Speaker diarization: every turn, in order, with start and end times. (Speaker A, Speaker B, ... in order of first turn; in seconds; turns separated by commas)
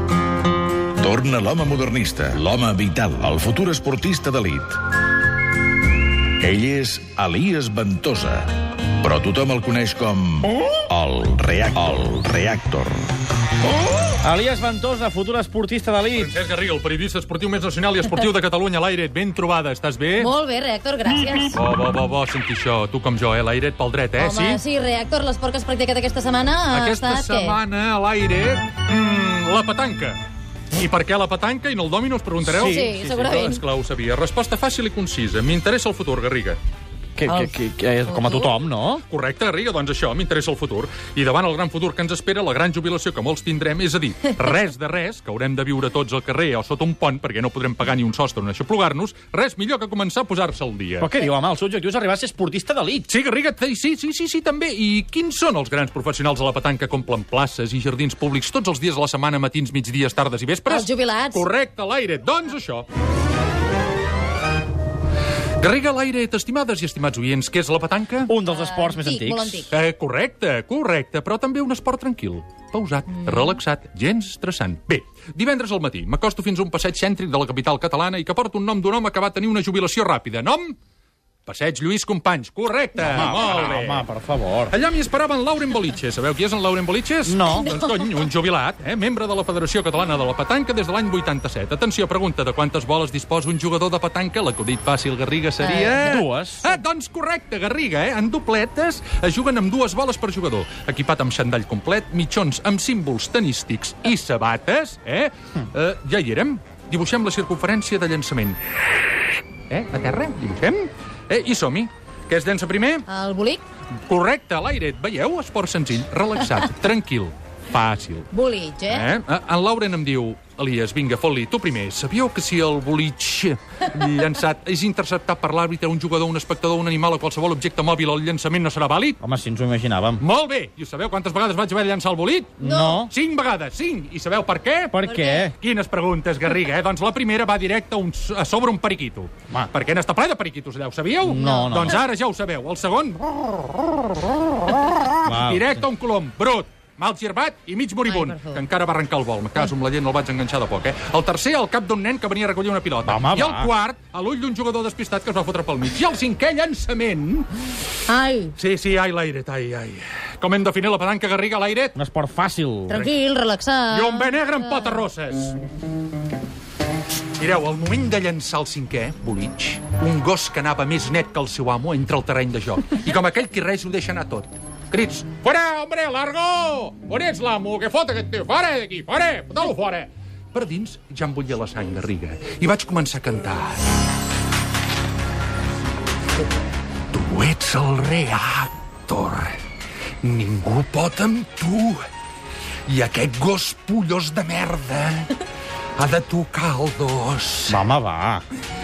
Speaker A: 1.0-4.8, Speaker A: 6.4-13.1, Speaker B: 14.2-16.3, Speaker C: 16.1-20.3, Speaker D: 20.2-21.6, Speaker C: 21.5-24.6, Speaker D: 24.2-27.6, Speaker C: 26.7-30.2, Speaker C: 30.7-36.6, Speaker B: 32.4-33.5, Speaker D: 32.5-33.6, Speaker B: 37.1-39.0, Speaker D: 38.1-38.5, Speaker C: 39.1-51.1, Speaker B: 51.0-53.1, Speaker C: 53.1-62.9, Speaker D: 60.7-61.4, Speaker C: 65.6-68.3, Speaker B: 68.3-69.7, Speaker D: 68.4-69.7, Speaker C: 69.7-80.8, Speaker C: 81.5-84.1, Speaker B: 83.0-84.7, Speaker C: 84.7-108.7, Speaker B: 87.2-87.7, Speaker D: 95.6-96.2, Speaker B: 96.0-96.8, Speaker C: 109.7-113.0, Speaker D: 113.1-113.6, Speaker C: 114.1-118.3, Speaker D: 118.3-119.1, Speaker C: 118.9-129.2, Speaker B: 129.2-130.2, Speaker C: 130.2-135.0, Speaker B: 132.6-133.1, Speaker D: 132.6-133.0, Speaker B: 134.9-135.5, Speaker D: 135.1-135.5, Speaker C: 135.6-157.5, Speaker B: 141.2-141.9, Speaker D: 141.3-142.0, Speaker B: 145.2-145.8, Speaker D: 148.0-148.6, Speaker B: 153.0-153.7, Speaker D: 158.1-158.5, Speaker C: 158.6-161.9, Speaker B: 161.9-163.1, Speaker D: 162.9-165.0, Speaker C: 163.9-165.6, Speaker C: 167.3-183.8, Speaker C: 187.1-189.6, Speaker C: 190.2-192.0, Speaker C: 192.9-195.4, Speaker C: 196.0-197.9, Speaker B: 197.7-198.4